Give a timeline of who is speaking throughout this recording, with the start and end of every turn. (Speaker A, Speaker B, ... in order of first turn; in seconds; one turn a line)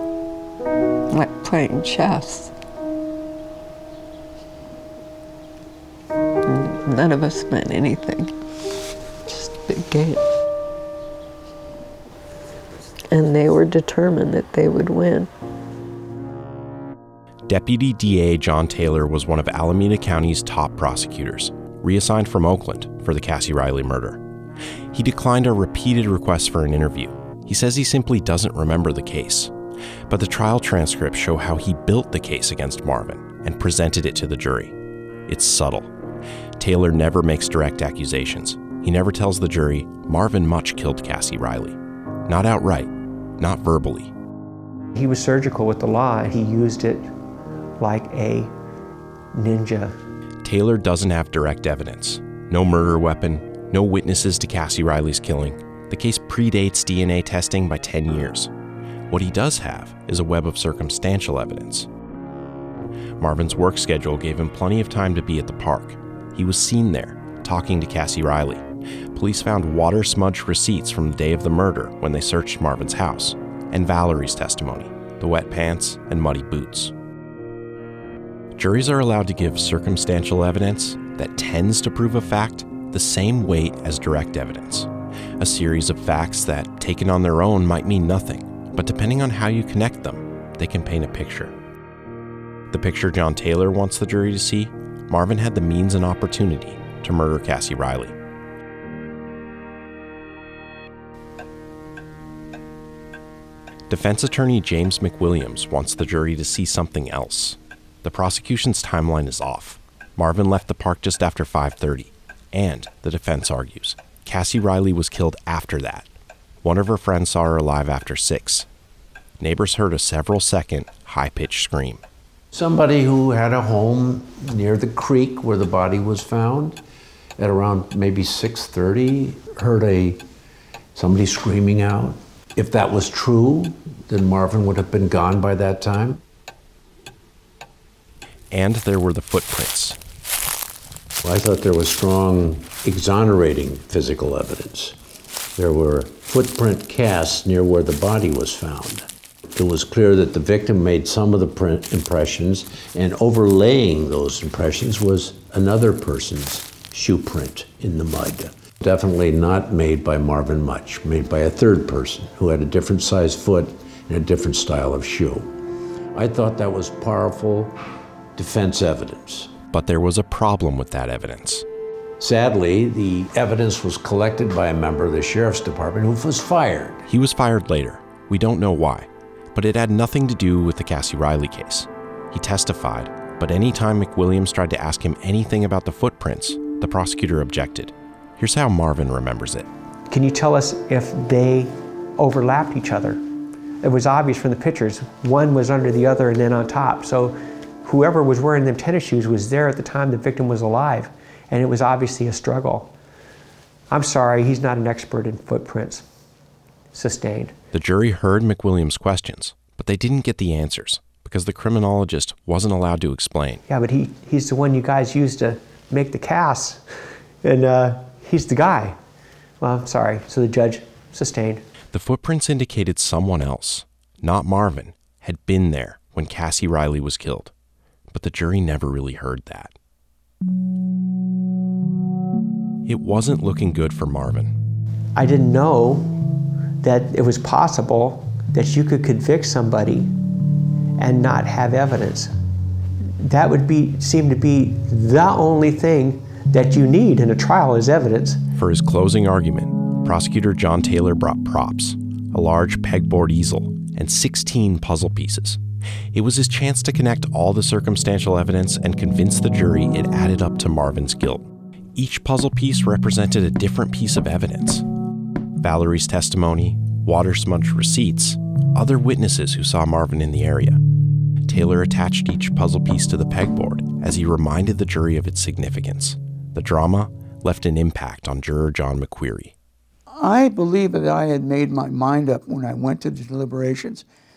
Speaker A: 1.1-2.5
Speaker A: 6.5-8.3
Speaker A: 9.2-10.2
Speaker A: 13.1-15.3
Speaker B: 17.4-24.2
Speaker B: 24.9-29.5
Speaker B: 30.1-34.7
Speaker B: 35.3-35.9
Speaker B: 36.6-44.1
Speaker C: 44.9-47.1
Speaker C: 47.8-48.5
Speaker C: 49.3-49.9
Speaker B: 50.4-58.5
Speaker B: 59.1-61.9
Speaker B: 63.2-76.9
Speaker B: 78.5-91.5
Speaker B: 92.7-98.1
Speaker B: 103.9-116.1
Speaker B: 116.6-118.7
Speaker B: 119.4-122.0
Speaker D: 122.5-126.8
Speaker D: 127.4-130.2
Speaker D: 130.9-136.2
Speaker B: 138.5-140.0
Speaker D: 141.2-145.0
Speaker D: 145.6-165.5
Speaker D: 166.1-167.8
Speaker D: 168.3-169.5
Speaker B: 169.7-171.7
Speaker D: 172.2-177.0
Speaker B: 177.1-189.7
Speaker C: 190.1-193.2
Speaker C: 193.8-202.9
Speaker C: 203.9-206.0
Speaker C: 206.9-207.5
Speaker B: 207.7-213.6
Speaker C: 213.7-216.8
Speaker C: 217.4-219.0
Speaker C: 219.6-221.6
Speaker B: 221.9-227.5
Speaker B: 228.1-229.7
Speaker B: 232.8-234.5
Speaker C: 235.2-236.1
Speaker C: 236.8-240.1
Speaker C: 241.0-242.3
Speaker C: 243.2-248.4
Speaker B: 248.6-255.6
Speaker B: 256.1-264.9
Speaker B: 265.6-270.8
Speaker B: 271.4-279.5
Speaker E: 280.1-284.0